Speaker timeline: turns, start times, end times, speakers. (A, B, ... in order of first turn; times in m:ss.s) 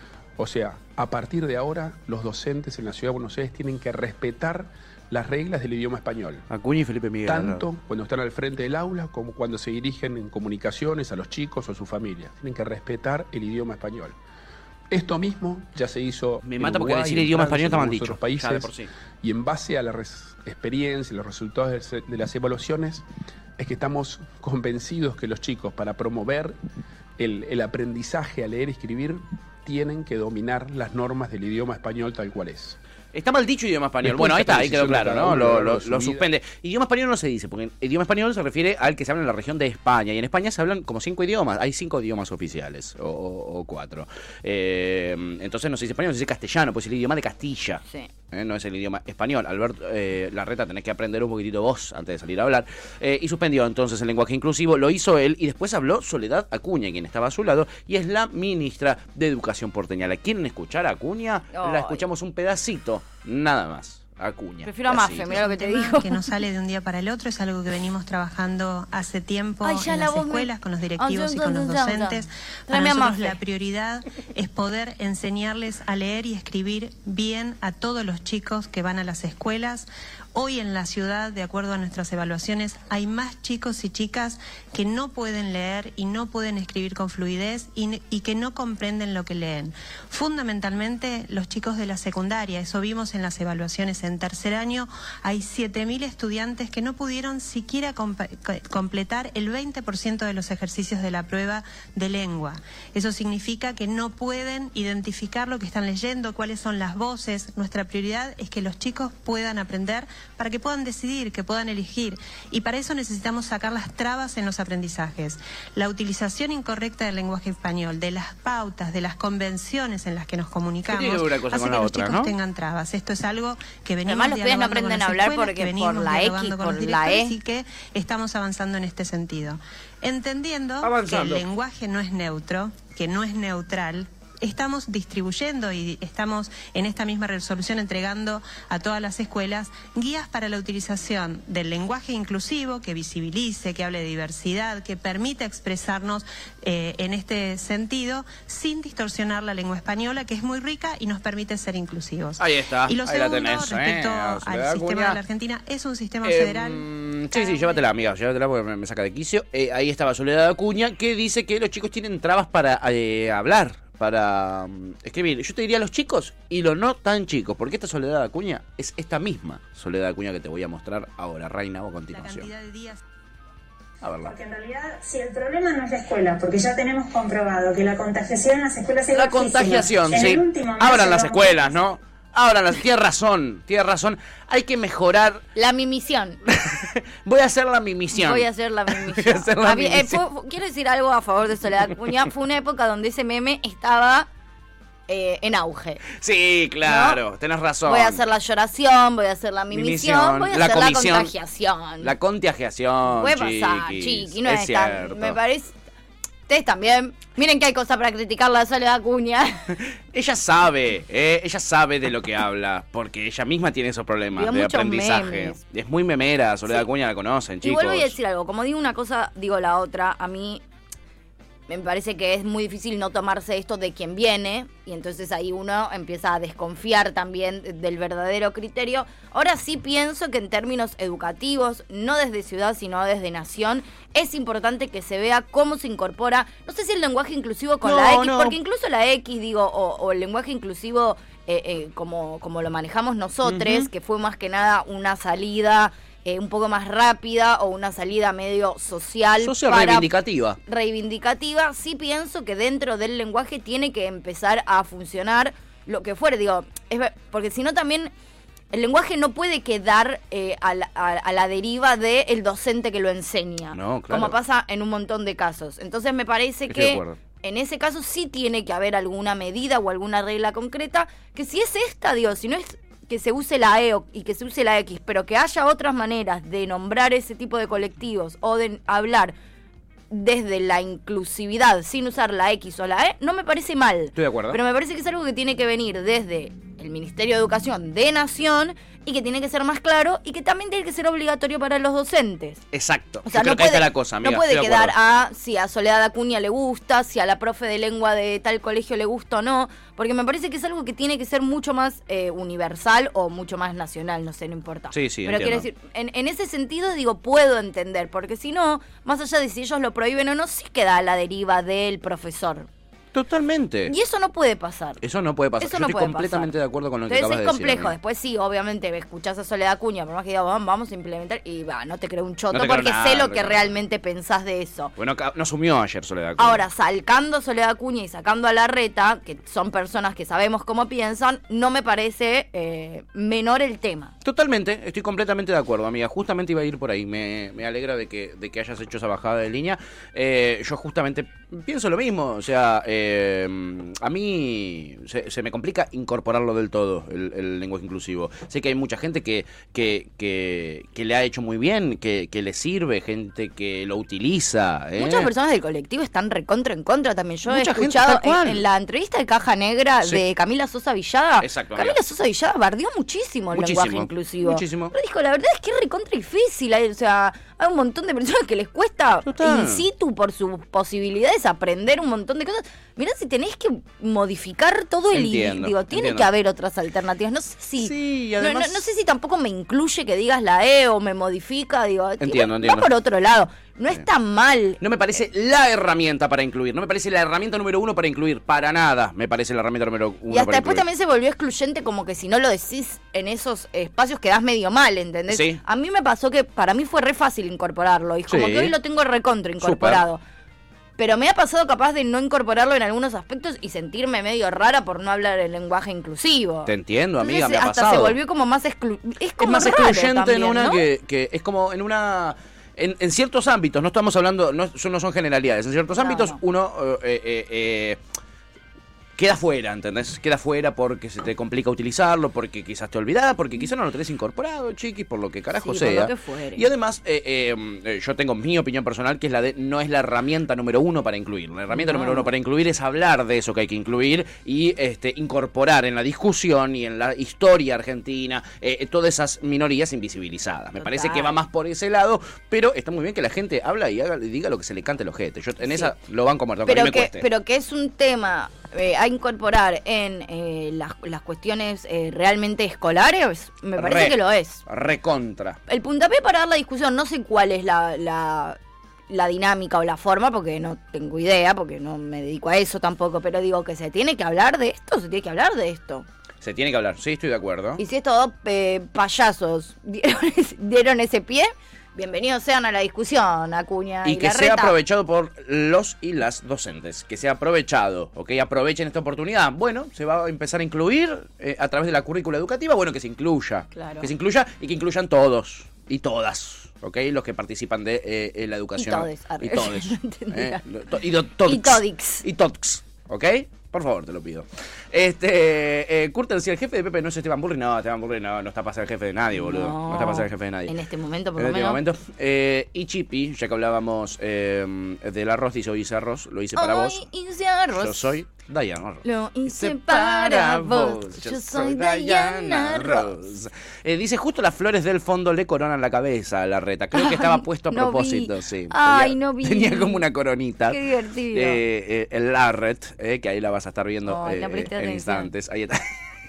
0:00.4-0:06.4 A
0:06.5-0:07.6 B
0:07.2-0:14.2 A
0:14.9-0:23.0 A
0:16.4-0:18.9 B
0:23.6-0:26.6 A
0:27.2-0:32.8 A
0:33.1-1:05.6 B
0:34.0-0:36.2 A
1:01.5-1:02.0 C
1:04.6-1:06.3 C
1:05.6-2:37.8 D
1:09.6-1:13.4 C
2:00.9-2:02.3 B
2:04.0-2:07.4 C
2:10.8-2:11.4 B
2:32.4-2:35.2 B
2:36.2-2:52.5 B
2:52.1-2:53.0 D
2:54.0-2:54.3 B
2:54.2-3:01.6 E
2:59.1-3:05.4 B
3:05.5-3:06.4 C
3:06.5-3:10.2 B
3:08.1-3:14.3 C
3:15.1-3:16.0 C
3:16.1-3:18.2 B
3:16.8-3:17.2 C
3:17.8-3:22.1 C
3:19.7-3:21.3 B
3:22.0-3:25.4 B
3:23.1-3:25.7 C
3:26.5-3:29.6 C
3:29.7-3:38.1 B
3:34.4-3:35.6 C
3:37.6-3:40.6 C
3:41.7-4:10.1 C
3:57.8-3:58.6 B
4:03.4-4:03.9 B
4:09.4-4:10.6 B
4:10.6-4:18.1 C
4:18.7-4:39.3 C
4:23.7-4:24.4 B
4:26.7-4:27.2 B
4:40.1-4:52.6 C
4:44.1-4:44.6 B
4:52.7-4:54.9 B
4:53.2-5:12.7 C
5:04.9-5:05.7 B
5:13.1-5:13.9 B
5:13.9-5:15.0 C
5:15.0-5:17.9 B
5:15.6-5:16.5 C
5:17.1-5:24.9 C
5:22.5-5:23.7 B
5:25.0-5:26.6 B
5:26.4-5:34.1 C
5:34.2-5:55.3 B
5:55.0-6:24.8 C
5:57.4-5:58.6 B
6:01.4-6:02.0 B
6:03.5-6:04.9 B
6:09.2-6:09.8 B
6:15.1-6:16.3 B
6:17.8-6:18.8 B
6:22.2-6:22.9 B
6:24.8-6:30.8 B
6:30.3-6:40.2 C
6:35.3-6:35.6 B
6:38.3-6:38.7 B
6:39.6-6:40.0 B
6:41.0-6:50.8 C
6:46.6-6:48.2 B
6:49.4-6:58.0 B
6:55.9-6:56.4 C
6:59.2-7:27.2 B
7:05.6-7:06.7 C
7:11.7-7:12.3 C
7:20.8-7:21.4 C
7:25.6-7:25.9 C
7:26.6-7:34.6 C
7:33.8-7:35.6 B
7:35.7-7:38.6 C
7:39.1-7:46.0 C
7:46.4-7:47.8 B
7:47.8-7:54.8 C
7:54.0-8:20.7 B
8:03.7-8:04.1 C
8:08.8-8:10.6 C
8:11.4-8:12.2 C
8:19.3-8:21.8 C
8:21.4-8:27.0 B
8:26.6-8:28.1 C
8:27.7-8:40.8 B
8:29.0-8:33.1 C
8:36.9-8:40.0 C
8:40.7-8:41.6 C
8:41.3-8:45.8 B
8:44.0-8:45.3 C